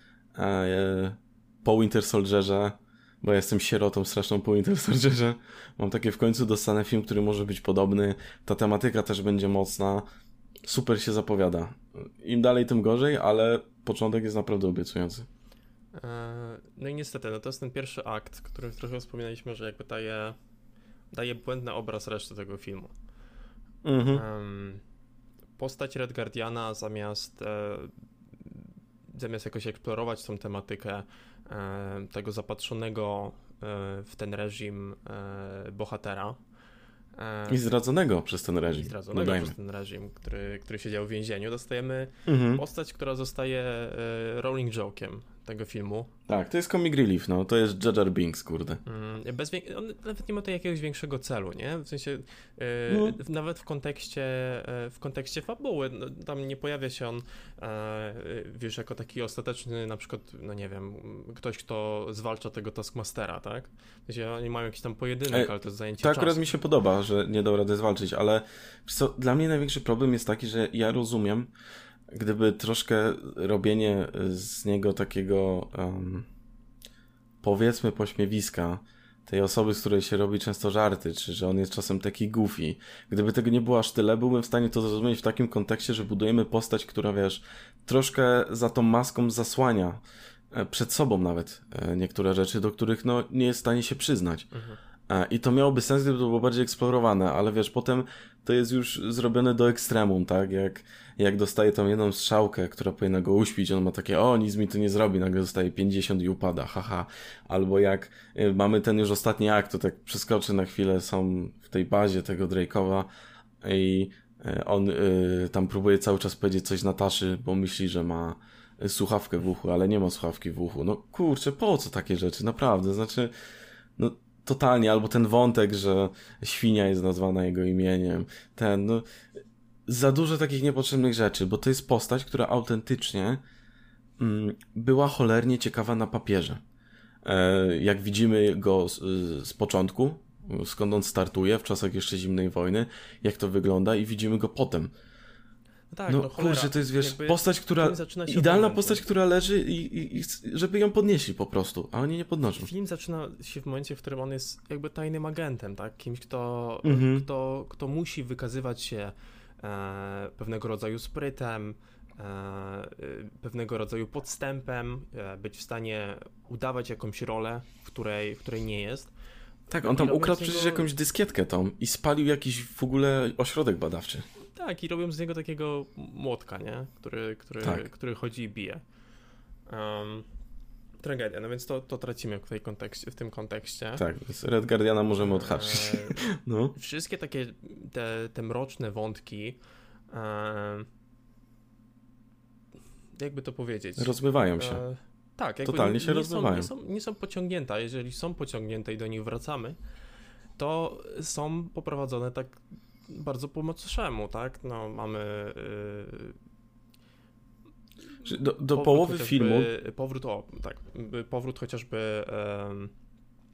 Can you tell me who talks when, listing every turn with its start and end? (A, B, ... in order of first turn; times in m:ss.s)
0:00.3-0:10.0 A
0:10.6-0:15.3 A
0:15.9-0:20.4 B
0:21.1-0:22.9 B
0:23.8-0:24.2 A
0:24.1-0:24.8 B
0:25.6-0:27.9 B
0:28.4-0:36.4 B
0:37.2-0:37.6 B
0:37.5-0:39.5 A
0:38.8-0:46.1 B
0:42.2-0:42.6 A
0:46.3-0:48.8 A
0:48.8-1:06.5 B
0:52.9-0:53.2 A
1:05.3-1:11.5 A
1:12.1-1:16.3 A
1:17.4-1:34.4 A
1:34.5-1:34.8 B
1:35.1-1:53.1 A
1:53.6-2:03.3 A
2:04.0-2:09.0 A
2:09.9-2:13.4 A
2:14.2-2:16.6 A
2:17.2-2:24.9 A
2:25.9-2:29.0 B
2:26.1-2:32.7 A
2:32.6-2:49.1 B
2:36.8-2:37.2 A
2:49.7-2:54.2 A
2:49.8-2:50.9 B
2:54.5-2:58.8 B
2:59.7-3:00.2 B
3:01.0-3:04.0 B
3:04.0-3:06.8 A
3:05.2-3:06.2 B
3:06.7-3:09.6 B
3:10.1-3:10.9 B
3:13.2-3:19.8 B
3:14.0-3:14.8 A
3:15.6-3:16.7 A
3:20.6-3:26.4 B
3:28.2-3:29.7 A
3:28.7-3:32.9 B